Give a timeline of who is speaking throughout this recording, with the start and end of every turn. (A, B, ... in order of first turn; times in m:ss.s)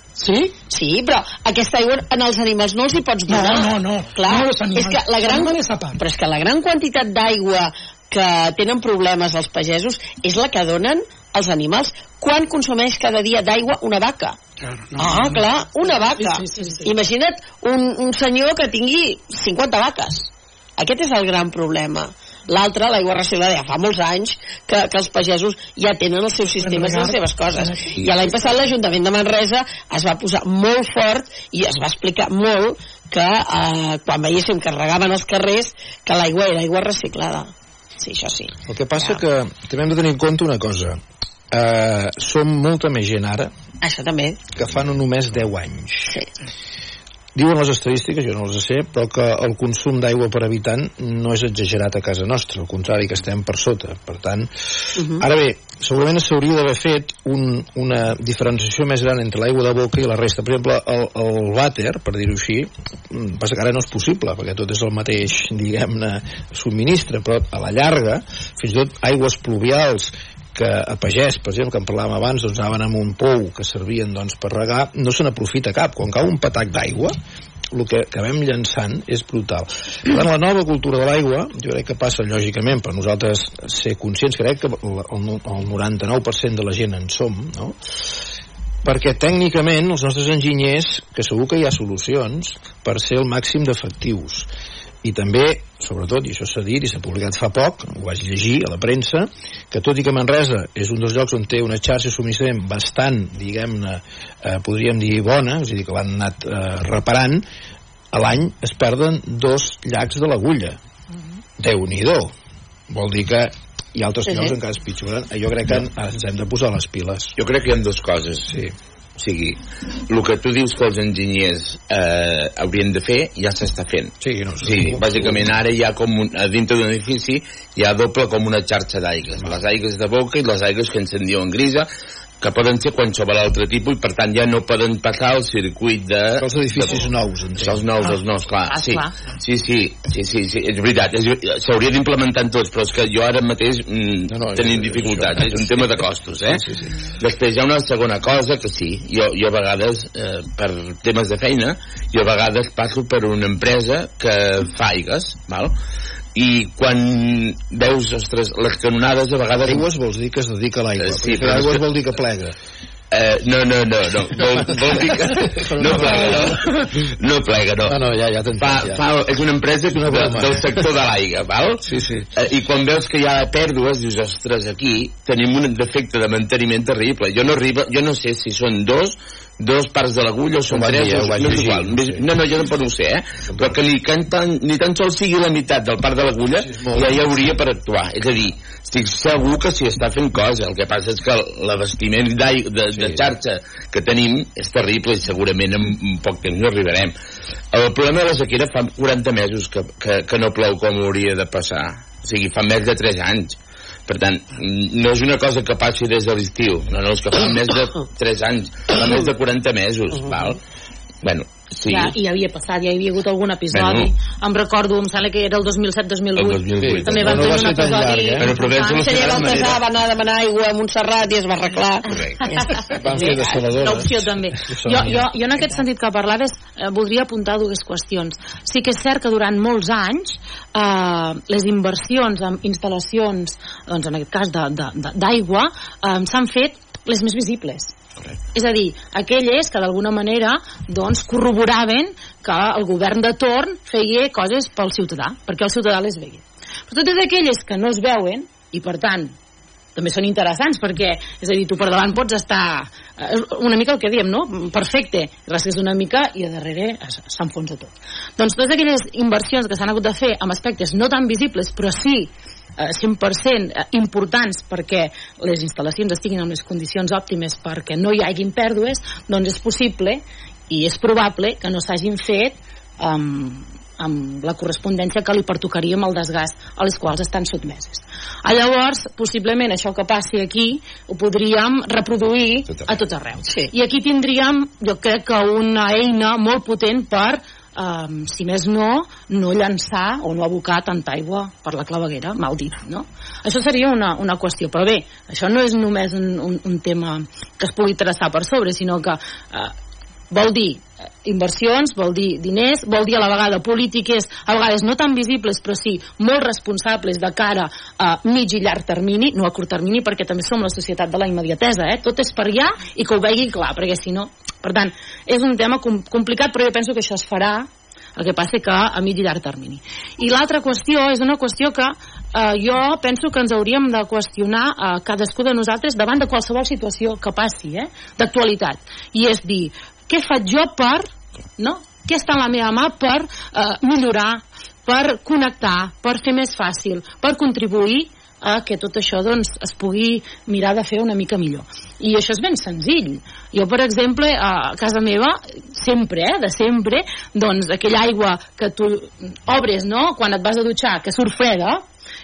0:00.2-0:00.6 A
0:00.7-0:14.4 B
0:03.3-0:06.0 A
0:14.6-0:16.9 A
0:15.0-0:39.2 B
0:26.5-0:28.5 A
0:38.7-0:41.0 C
0:41.5-0:43.5 C
0:43.8-0:44.4 B
0:44.6-0:46.2 C
0:47.4-1:17.2 C
0:55.0-0:55.2 B
1:17.7-1:27.8 C
1:28.8-1:34.5 C
1:35.0-1:47.4 C
1:48.1-1:50.8 C
1:51.6-1:52.3 C
1:52.9-1:57.4 C
1:54.3-1:54.6 B
1:57.4-1:58.5 D
1:58.5-1:58.7 C
1:59.2-2:11.9 D
2:04.2-2:05.5 C
2:12.4-2:17.1 D
2:16.4-2:18.0 C
2:17.6-2:26.6 D
2:18.7-2:19.1 E
2:24.3-2:26.9 C
2:27.2-2:35.8 D
2:36.4-2:39.9 D
2:39.6-2:42.6 C
2:41.0-2:41.8 D
2:43.1-2:48.0 D
2:44.5-2:46.6 C
2:47.9-2:49.0 C
2:48.6-3:17.1 D
2:49.9-2:50.9 C
2:51.9-2:52.3 C
3:00.7-3:02.3 C
3:06.6-3:07.3 C
3:12.9-3:13.4 C
3:17.7-3:23.6 D
3:24.1-3:30.6 D
3:31.2-3:32.2 D
3:31.8-3:39.5 E
3:33.7-3:34.1 D
3:36.4-3:37.6 D
3:36.8-3:38.6 C
3:38.4-3:39.8 D
3:39.0-3:43.3 B
3:42.1-3:42.4 D
3:42.5-3:57.9 E
3:42.8-3:45.3 C
3:58.5-4:09.3 E
4:10.0-4:59.7 E
5:00.3-5:31.1 E
5:31.6-5:51.8 E